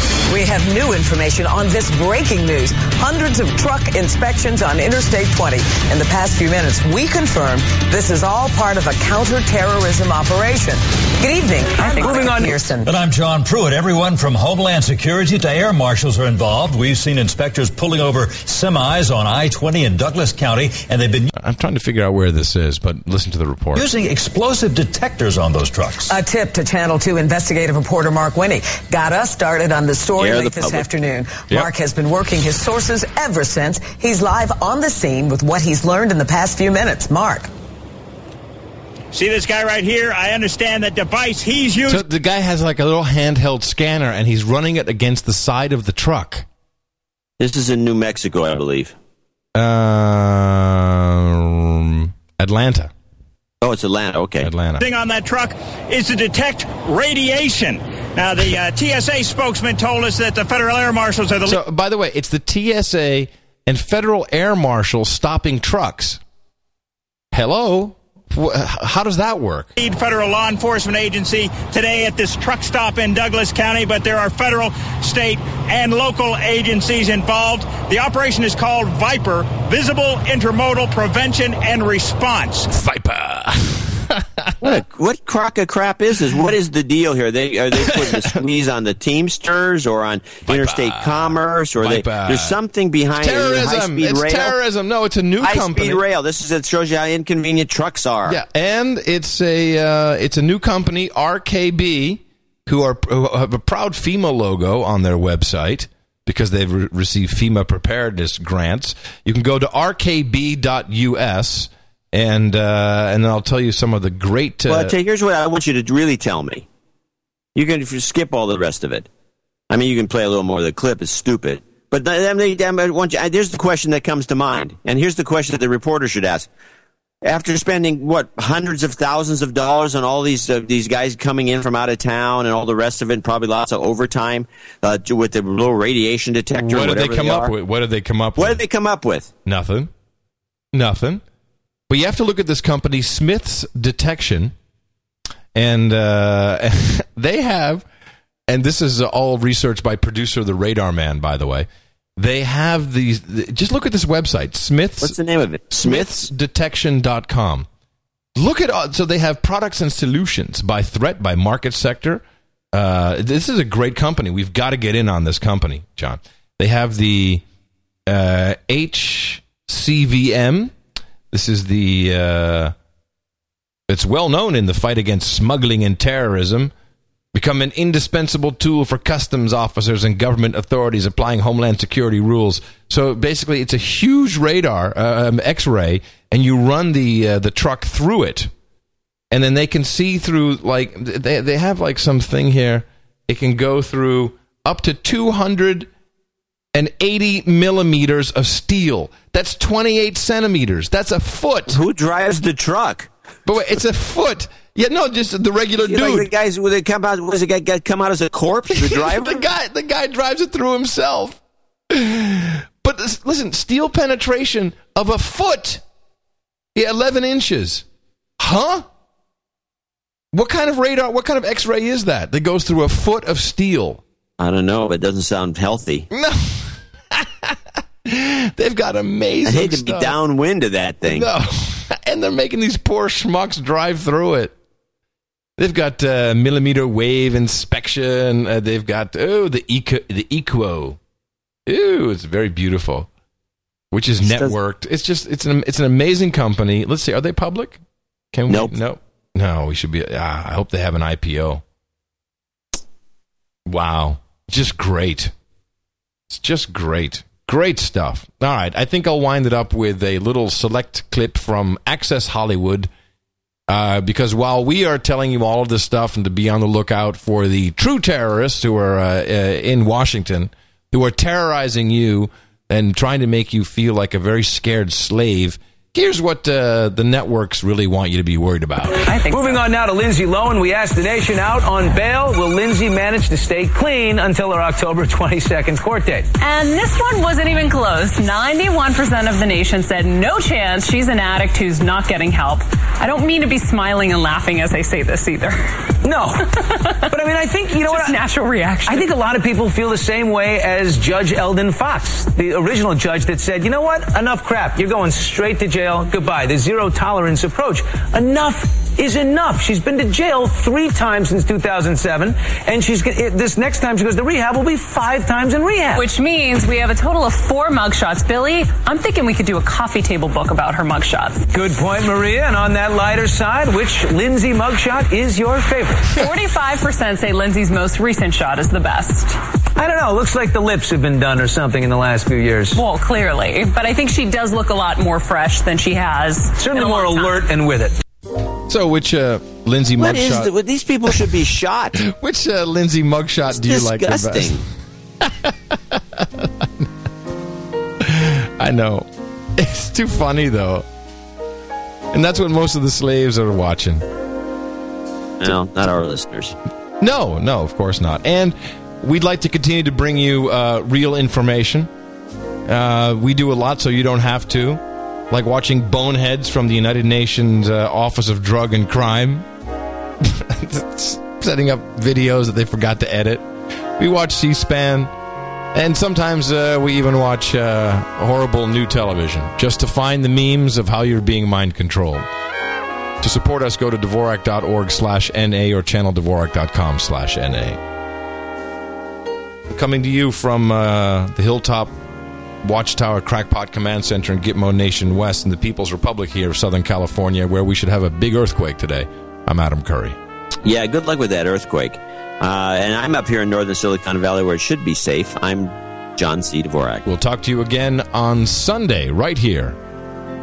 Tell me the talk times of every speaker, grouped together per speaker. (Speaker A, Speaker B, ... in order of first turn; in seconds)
Speaker A: 0.3-12.9, 26.1-37.5
Speaker B: 11.8-12.6, 279.2-286.3, 296.1-296.4, 297.1-298.2, 298.9-316.0, 321.5-326.0, 329.8-332.8, 336.6-337.9
Speaker C: 12.8-21.2, 23.8-26.0
Speaker D: 21.3-23.9, 41.9-46.5, 49.5-52.9, 54.4-54.8, 61.5-66.2, 67.3-69.7, 82.7-84.8, 87.8-88.4, 90.5-92.6, 93.2-96.0, 98.3-114.9, 136.6-138.6, 139.4-139.9, 140.7-141.2, 141.9-144.5, 145.5-147.9, 148.5-155.2, 155.8-157.7, 158.4-162.2, 162.7-167.4, 168.1-170.7, 171.3-172.7, 173.9-176.7, 177.3-188.5, 189.3-195.9, 196.7-201.8, 203.5-206.3, 208.7-215.8, 216.8-217.8, 218.4-218.9, 220.3-224.0, 226.1-230.1, 231.1-234.5, 235.6-241.0, 241.7-243.1, 243.9-247.8, 248.3-251.6, 253.7-255.3, 256.3-262.9, 263.7-279.0, 338.7-340.5, 342.0-344.6, 345.2-346.9, 348.0-350.9, 352.1-354.0, 357.0-361.9, 362.7-369.5, 370.2-373.4, 374.0-375.1, 375.7-382.3, 383.2-387.8, 389.7-391.9, 392.6-400.2, 407.1-409.8
Speaker E: 30.2-30.9, 47.4-48.9, 53.6-54.5, 84.6-94.6, 95.4-98.4, 114.7-116.7, 117.5-119.1, 119.7-126.5, 127.2-137.5, 138.4-139.3, 155.0-156.2, 201.7-203.1, 205.8-209.4, 224.4-226.1, 229.5-231.3, 244.2-244.6, 340.0-342.0, 343.5-344.6, 355.4-356.6, 400.6-407.1
Speaker F: 39.1-42.0, 54.8-61.6, 69.8-82.7
Speaker G: 279.0-279.7, 286.4-295.6, 296.9-297.2, 297.8-299.1, 315.9-321.6, 326.1-329.3, 332.8-337.5